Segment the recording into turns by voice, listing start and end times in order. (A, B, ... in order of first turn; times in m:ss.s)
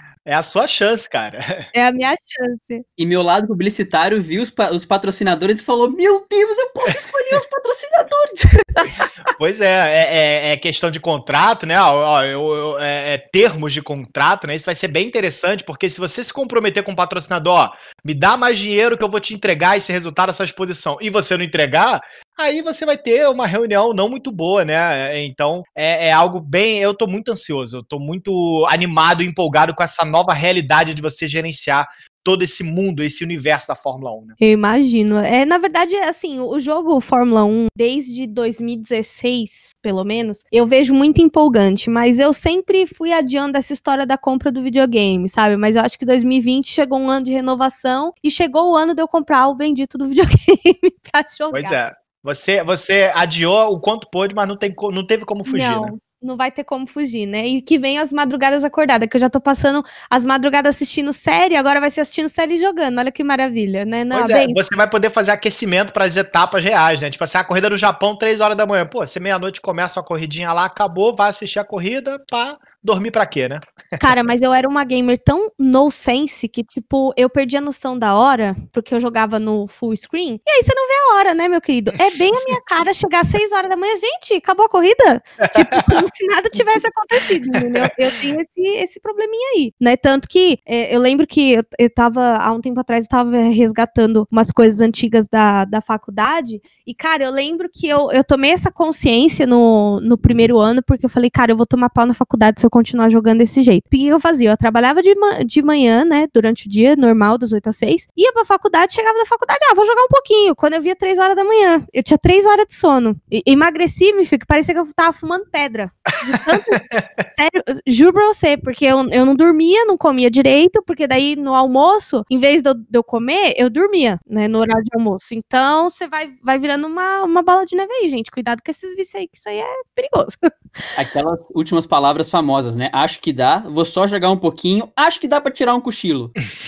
0:00.2-0:01.7 A
0:01.7-0:02.8 B
0:03.0-0:09.0 C
0:09.4-0:34.4 A
0:34.4-0:51.8 B
0:51.5-0:55.9 A
0:55.4-1:04.6 B
1:04.1-1:14.1 A
1:14.0-1:56.8 B
1:25.5-1:25.8 A
1:27.5-1:27.8 A
1:56.3-1:57.2 A
1:57.3-2:10.5 B
2:11.0-2:16.3 C